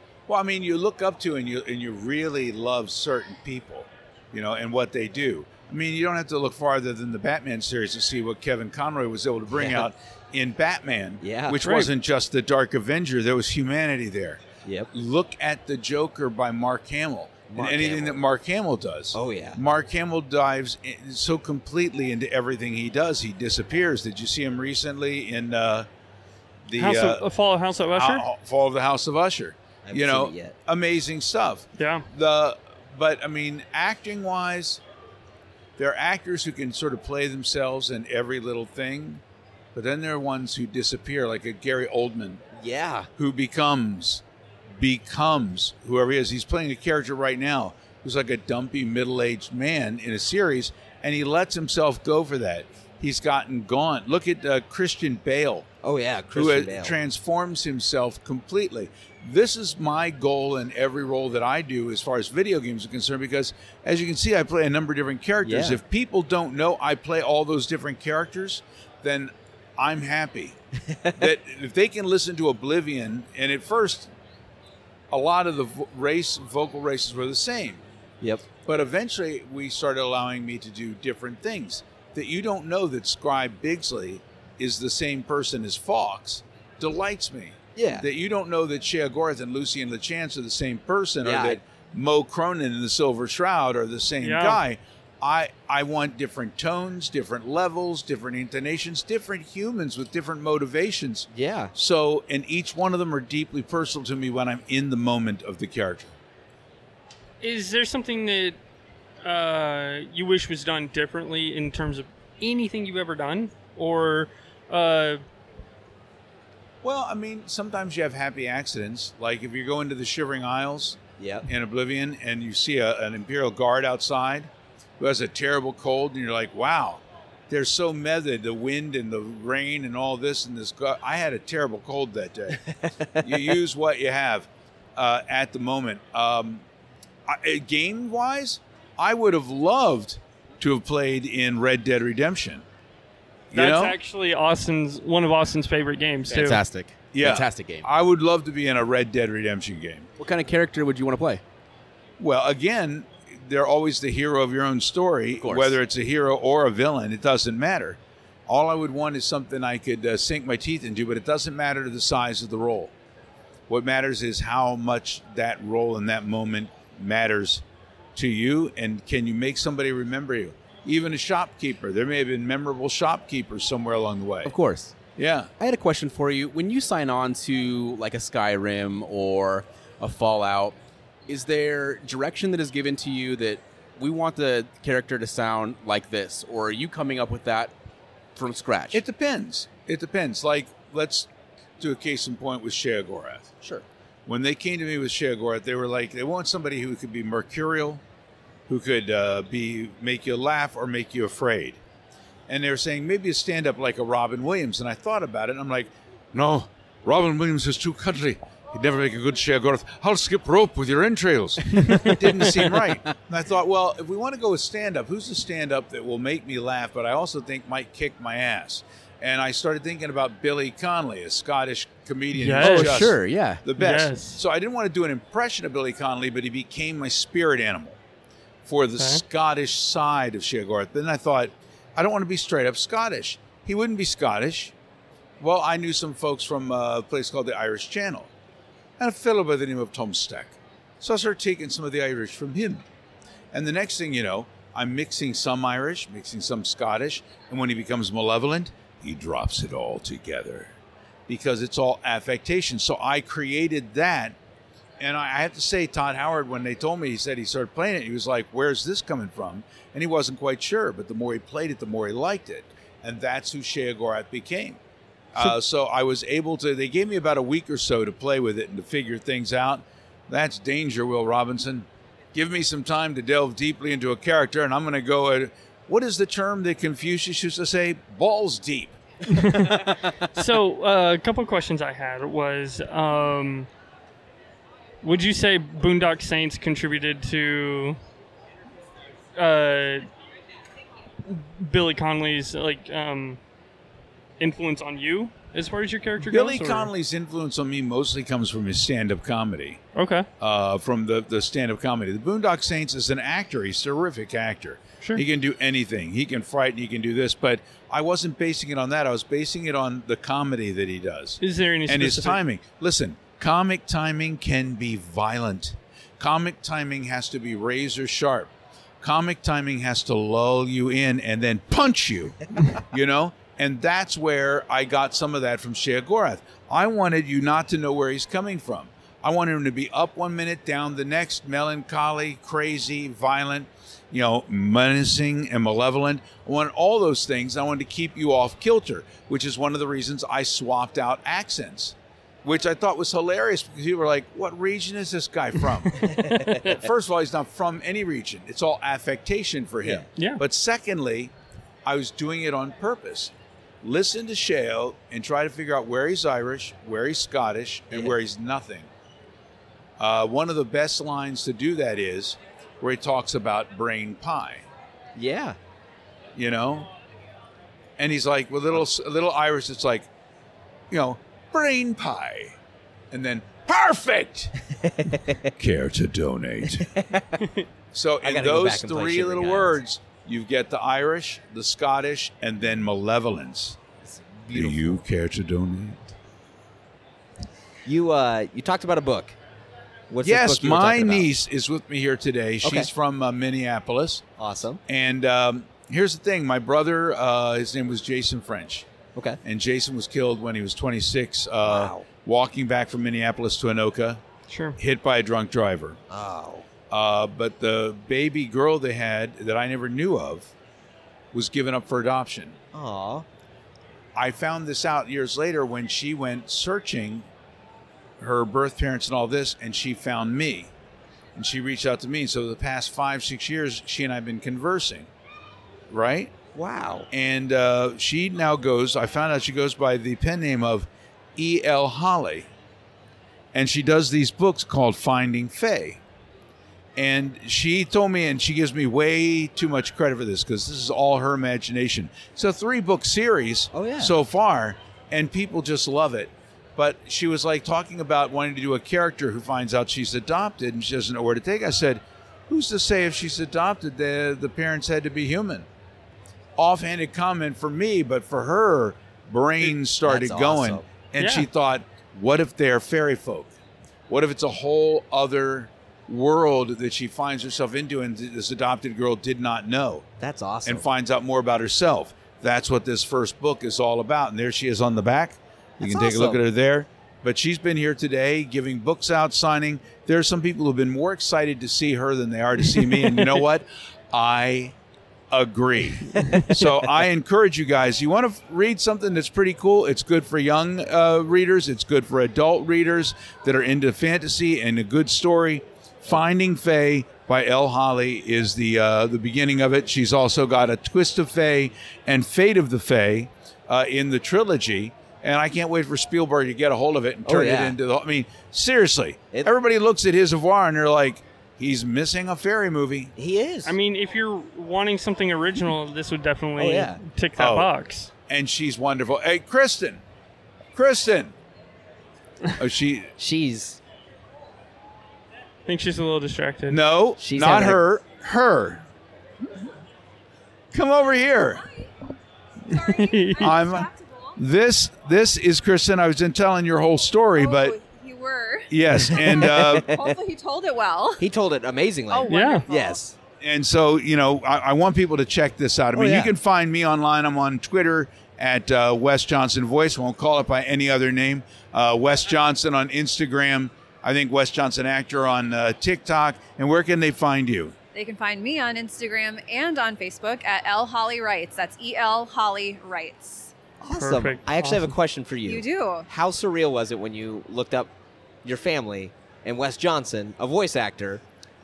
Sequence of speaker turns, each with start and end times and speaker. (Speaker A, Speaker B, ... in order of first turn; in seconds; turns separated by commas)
Speaker A: 0.3-25.9, Speaker B: 9.5-9.9, Speaker B: 11.2-11.6, Speaker C: 11.6-11.9, Speaker B: 14.6-14.9, Speaker B: 17.5-18.2, Speaker B: 19.1-19.6, Speaker A: 26.7-27.2, Speaker C: 26.8-28.2, Speaker A: 27.9-34.8, Speaker B: 29.8-30.5, Speaker C: 31.8-32.0, Speaker A: 35.8-39.2, Speaker A: 39.7-42.4, Speaker B: 42.5-43.1, Speaker A: 43.2-44.2, Speaker A: 44.8-55.7, Speaker B: 55.8-57.0, Speaker A: 56.3-70.6, Speaker B: 65.4-65.8, Speaker B: 70.9-71.2, Speaker A: 71.2-74.1, Speaker A: 75.1-77.8, Speaker B: 78.2-78.5, Speaker A: 78.6-106.1, Speaker B: 87.8-88.0, Speaker B: 91.2-91.6, Speaker C: 94.2-94.6, Speaker B: 101.3-101.7, Speaker C: 107.4-108.6, Speaker C: 109.2-115.2, Speaker A: 116.8-132.6, Speaker B: 121.2-121.5, Speaker B: 132.6-133.5, Speaker A: 133.2-136.6, Speaker A: 137.3-142.6, Speaker A: 143.5-143.9, Speaker C: 143.5-146.6, Speaker D: 146.3-147.9, Speaker A: 147.1-150.1, Speaker D: 150.2-151.4, Speaker A: 152.2-162.9, Speaker D: 155.4-155.8, Speaker A: 163.7-167.6, Speaker A: 168.1-174.5, Speaker D: 174.4-174.9, Speaker A: 175.2-175.5, Speaker D: 175.6-180.7, Speaker D: 181.3-187.7, Speaker D: 188.3-189.0, Speaker A: 188.9-193.5, Speaker A: 194.2-198.0, Speaker A: 198.7-201.8, Speaker A: 202.5-228.0, Speaker C: 211.8-212.2, Speaker C: 222.3-223.1, Speaker D: 222.6-223.6, Speaker C: 223.8-224.4, Speaker A: 228.6-234.7, Speaker A: 235.4-238.3, Speaker A: 239.0-242.8, Speaker A: 243.5-250.7, Speaker A: 251.3-254.3, Speaker A: 255.0-264.8, Speaker A: 265.3-279.0, Speaker C: 279.3-283.7, Speaker C: 285.0-288.0, Speaker C: 289.4-290.1, Speaker C: 291.2-293.4, Speaker C: 294.4-296.9, Speaker A: 296.2-299.8, Speaker C: 299.9-300.3, Speaker A: 300.4-346.1, Speaker C: 311.4-312.4, Speaker B: 346.0-346.6, Speaker C: 346.0-346.8, Speaker A: 346.6-351.3, Speaker C: 350.1-350.4, Speaker A: 351.8-358.9, Speaker B: 357.9-358.2, Speaker A: 360.0-364.6, Speaker B: 365.1-365.6, Speaker A: 366.3-366.9, Speaker A: 368.0-370.1, Speaker A: 370.9-372.6, Speaker A: 373.1-374.5, Speaker B: 374.7-375.5, Speaker A: 375.6-376.9, Speaker B: 376.8-377.4, Speaker A: 377.9-383.8, Speaker B: 378.2-379.8, Speaker B: 384.0-385.0, Speaker A: 384.5-386.1, Speaker B: 387.8-389.4, Speaker B: 390.1-391.3, Speaker A: 390.2-394.2, Speaker B: 392.6-392.9, Speaker B: 394.4-394.8, Speaker A: 394.9-398.9, Speaker B: 399.1-399.4, Speaker A: 399.4-404.2, Speaker B: 401.6-402.1, Speaker C: 404.5-404.8, Speaker A: 404.8-406.0, Speaker B: 406.1-406.6, Speaker A: 406.9-410.5, Speaker A: 411.3-412.6, Speaker B: 412.7-413.2, Speaker A: 414.1-417.3, Speaker A: 418.2-420.7, Speaker A: 421.4-425.1, Speaker A: 425.9-426.3, Speaker B: 426.5-427.1, Speaker A: 427.1-432.5, Speaker A: 433.5-436.0, Speaker A: 436.9-455.6, Speaker B: 443.7-444.1, Speaker A: 456.6-463.5, Speaker B: 460.0-460.9, Speaker C: 461.2-461.5, Speaker A: 464.1-470.1, Speaker B: 470.2-470.9, Speaker A: 470.6-484.7, Speaker B: 475.8-476.4, Speaker A: 485.3-513.1, Speaker B: 507.2-507.8, Speaker B: 513.1-513.7, Speaker C: 513.6-518.1, Speaker B: 516.6-517.0, Speaker A: 517.4-517.7, Speaker A: 518.3-520.0, Speaker A: 520.7-521.3, Speaker A: 522.6-523.1, Speaker B: 523.2-523.8, Speaker C: 525.6-526.8, Speaker A: 526.7-528.8, Speaker B: 527.2-527.8, Speaker A: 530.7-531.6, Speaker E: 532.6-534.3, Speaker C: 532.7-533.6, Speaker A: 533.4-537.8, Speaker E: 537.4-538.7, Speaker A: 538.7-539.9, Speaker B: 538.9-540.1, Speaker E: 539.8-541.2, Speaker B: 541.2-543.1, Speaker E: 542.1-543.0, Speaker C: 542.3-542.6, Speaker A: 543.4-557.7, Speaker B: 545.9-546.3, Speaker E: 557.9-563.5, Speaker B: 563.8-567.9, Speaker C: 564.0-564.9, Speaker E: 565.4-566.1, Speaker B: 568.4-571.2